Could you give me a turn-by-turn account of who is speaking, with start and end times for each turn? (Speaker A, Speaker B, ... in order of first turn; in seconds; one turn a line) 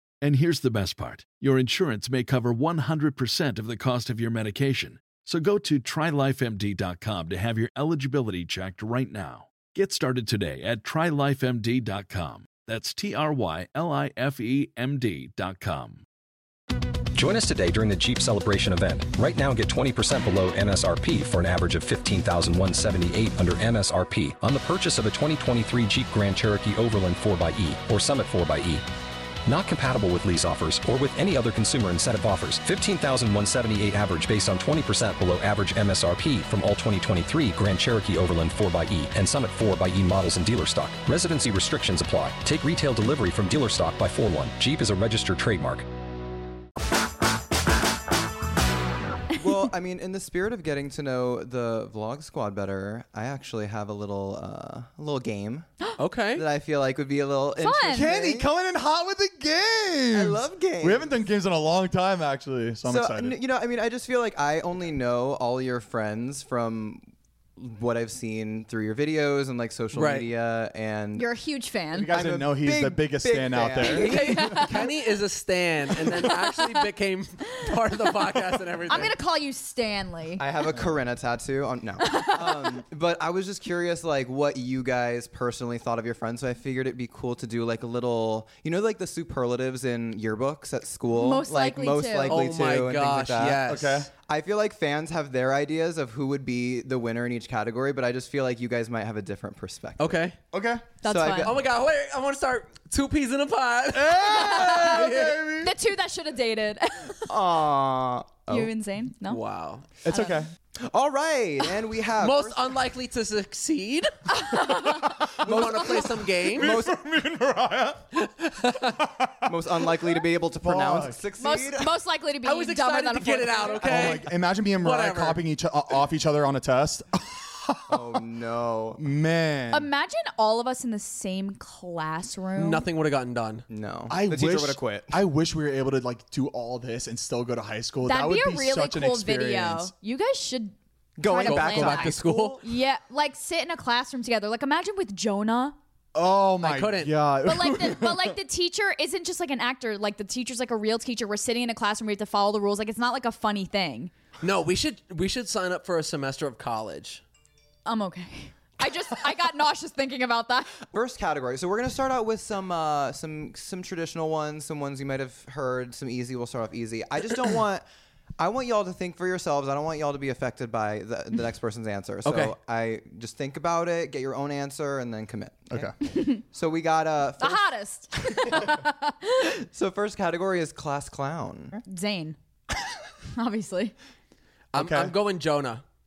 Speaker A: 0.2-16.1
Speaker B: 17.1-28.9
Speaker B: 29.5-45.9
Speaker C: 49.4-55.7
Speaker D: 56.0-56.5
Speaker C: 56.4-58.5
Speaker E: 57.6-58.1
Speaker F: 57.9-63.4
Speaker C: 60.1-61.1
Speaker C: 62.9-71.3
Speaker D: 69.9-70.3
Speaker E: 71.2-72.1
Speaker F: 72.0-74.7
Speaker C: 72.1-74.8
Speaker D: 73.9-79.1
Speaker E: 73.9-74.9
Speaker E: 78.9-80.4
Speaker C: 80.4-93.7
Speaker E: 82.0-82.7
Speaker E: 91.1-92.5
Speaker D: 92.3-94.1
Speaker F: 93.6-94.1
Speaker C: 94.2-100.2
Speaker D: 100.0-100.4
Speaker F: 100.5-100.9
Speaker E: 101.0-101.5
Speaker C: 101.0-101.6
Speaker D: 101.4-105.4
Speaker F: 103.9-105.8
Speaker E: 104.2-107.3
Speaker C: 107.3-108.7
Speaker E: 108.5-109.4
Speaker D: 109.3-109.8
Speaker F: 110.0-110.5
Speaker E: 110.1-110.4
Speaker C: 110.8-112.7
Speaker D: 112.2-114.1
Speaker E: 114.3-115.2
Speaker F: 114.5-118.1
Speaker D: 115.4-116.8
Speaker C: 115.4-117.0
Speaker D: 118.2-119.0
Speaker F: 118.7-121.2
Speaker C: 119.5-121.9
Speaker E: 121.4-124.2
Speaker D: 122.4-125.4
Speaker F: 123.8-128.2
Speaker C: 127.9-129.0
Speaker F: 129.0-129.9
Speaker E: 129.7-132.9
Speaker D: 132.6-133.7
Speaker C: 133.7-135.2
Speaker F: 134.1-139.9
Speaker E: 138.1-145.8
Speaker C: 141.2-142.6
Speaker D: 141.4-142.6
Speaker F: 146.2-148.4
Speaker D: 146.6-147.2
Speaker E: 147.4-154.1
Speaker D: 154.4-157.2
Speaker E: 157.9-160.8
Speaker C: 160.9-167.8
Speaker C: 168.4-177.7
Speaker D: 172.2-172.6
Speaker E: 176.1-176.4
Speaker E: 177.4-179.5
Speaker C: 178.3-178.8
Speaker C: 179.6-181.8
Speaker E: 181.9-182.4
Speaker E: 183.4-183.9
Speaker F: 184.7-185.1
Speaker D: 184.7-185.8